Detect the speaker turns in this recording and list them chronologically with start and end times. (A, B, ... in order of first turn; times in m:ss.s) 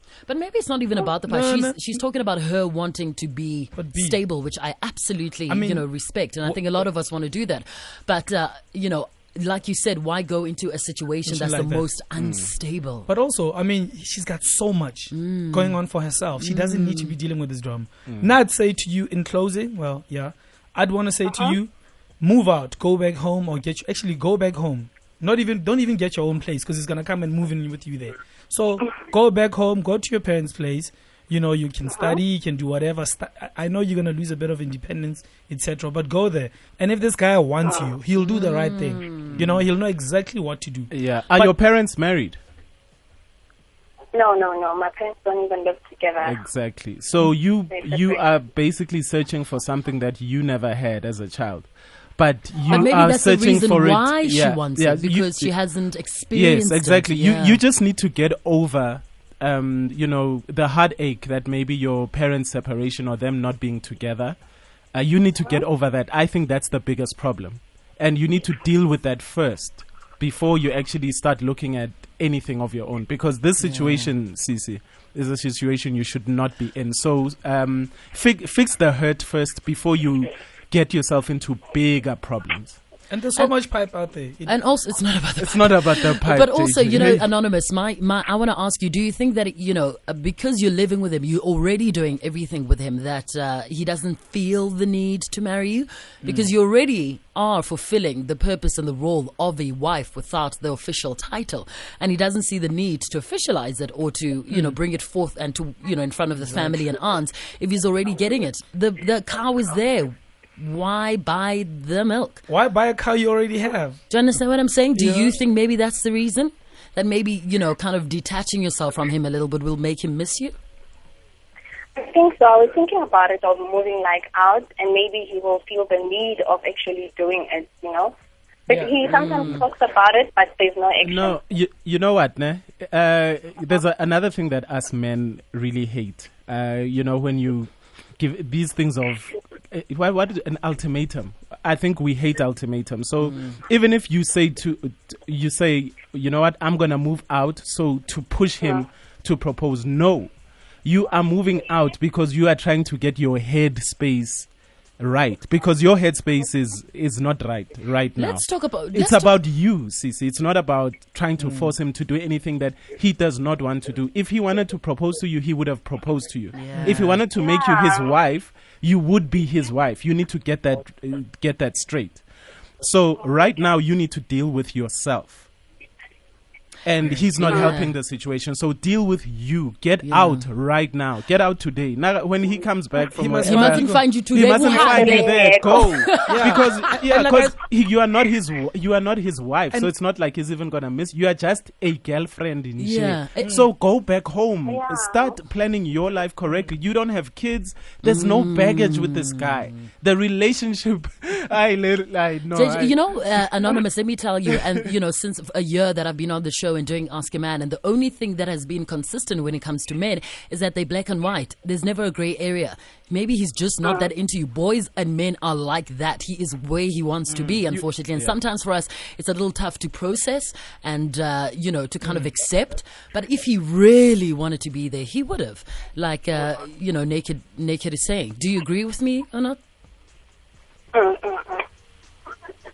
0:00.3-0:13.1 A
0:01.2-0:01.8 B
0:03.7-0:04.2 B
0:05.5-0:06.6 B
0:11.2-0:11.9 B
0:12.1-0:12.5 C
0:13.1-0:41.5 B
0:15.1-0:15.8 A
0:16.4-0:17.1 A
0:18.0-0:18.3 C
0:38.2-0:39.4 A
0:39.2-0:39.6 C
0:40.9-0:42.4 C
0:44.1-0:46.4 D
0:46.2-0:55.6 C
0:47.4-0:48.2 D
0:52.7-0:57.6 A
0:56.3-1:22.8 C
1:13.6-1:14.1 A
1:23.1-1:24.6 B
1:24.4-1:52.4 A
1:25.4-1:27.2 C
1:26.9-1:27.2 B
1:36.2-1:36.5 B
1:44.5-1:44.8 B
1:46.4-1:46.8 B
1:52.5-1:54.0 B
1:54.1-2:00.6 A
1:54.9-1:55.3 B
2:02.0-2:08.1 D
2:08.7-2:11.4 D
2:09.0-2:09.6 A
2:11.0-2:52.2 C
2:23.2-2:23.6 A
2:38.2-2:39.3 A
2:41.4-2:41.8 B
2:46.5-2:47.2 A
2:46.8-2:47.1 B
2:47.3-2:48.1 D
2:52.8-2:55.5 C
2:56.8-3:23.5 C
2:57.3-2:57.9 A
2:57.5-2:57.7 D
3:00.0-3:00.5 A
3:03.1-3:04.2 B
3:03.4-3:06.6 A
3:04.4-3:06.1 D
3:06.2-3:07.6 B
3:12.8-3:13.6 A
3:14.6-3:15.4 D
3:18.0-3:19.7 A
3:22.5-3:49.6 A
3:24.5-3:24.8 C
3:37.4-3:38.4 C
3:50.9-3:51.6 D